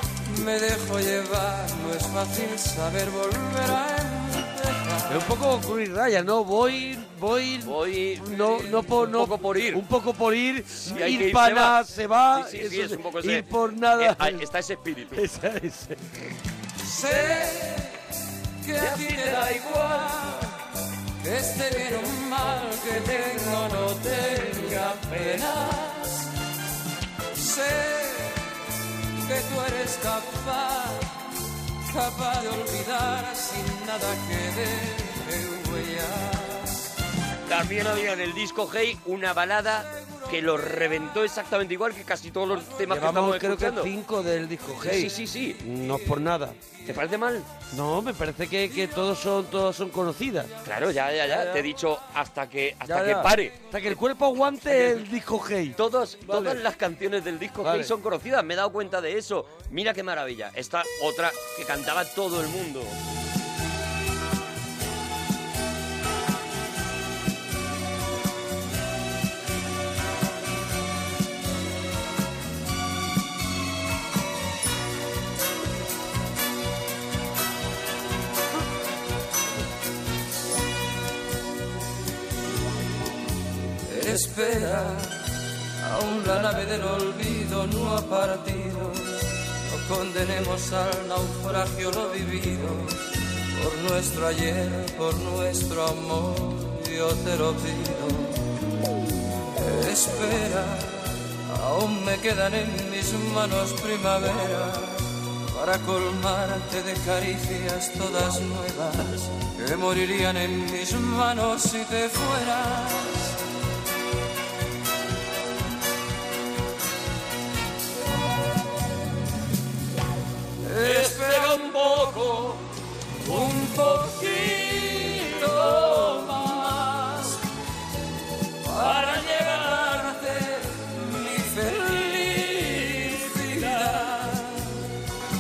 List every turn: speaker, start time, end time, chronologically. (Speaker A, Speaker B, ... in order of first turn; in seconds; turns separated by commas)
Speaker A: 0.2-5.2, Speaker B: 5.1-14.5, Speaker C: 7.6-9.8, Speaker C: 10.8-11.8, Speaker C: 12.3-15.2, Speaker B: 15.1-16.1, Speaker A: 16.8-18.0, Speaker A: 18.6-20.5, Speaker C: 18.8-20.3, Speaker A: 21.2-26.3, Speaker C: 24.8-25.4, Speaker A: 27.3-28.4, Speaker A: 29.2-31.2, Speaker A: 31.9-36.9, Speaker C: 37.5-43.9, Speaker B: 42.9-46.6, Speaker C: 44.8-45.6, Speaker C: 46.9-47.5, Speaker B: 47.7-50.5, Speaker C: 50.6-54.0, Speaker B: 51.2-51.7, Speaker B: 52.9-56.6, Speaker C: 54.6-55.0, Speaker C: 55.8-63.0, Speaker B: 57.6-57.9, Speaker A: 83.9-85.2, Speaker A: 85.8-93.0, Speaker A: 93.5-98.4, Speaker A: 99.6-113.3, Speaker A: 120.6-122.2, Speaker C: 120.8-122.7, Speaker A: 123.2-127.4, Speaker C: 125.2-126.4, Speaker A: 128.6-134.8, Speaker C: 128.8-129.9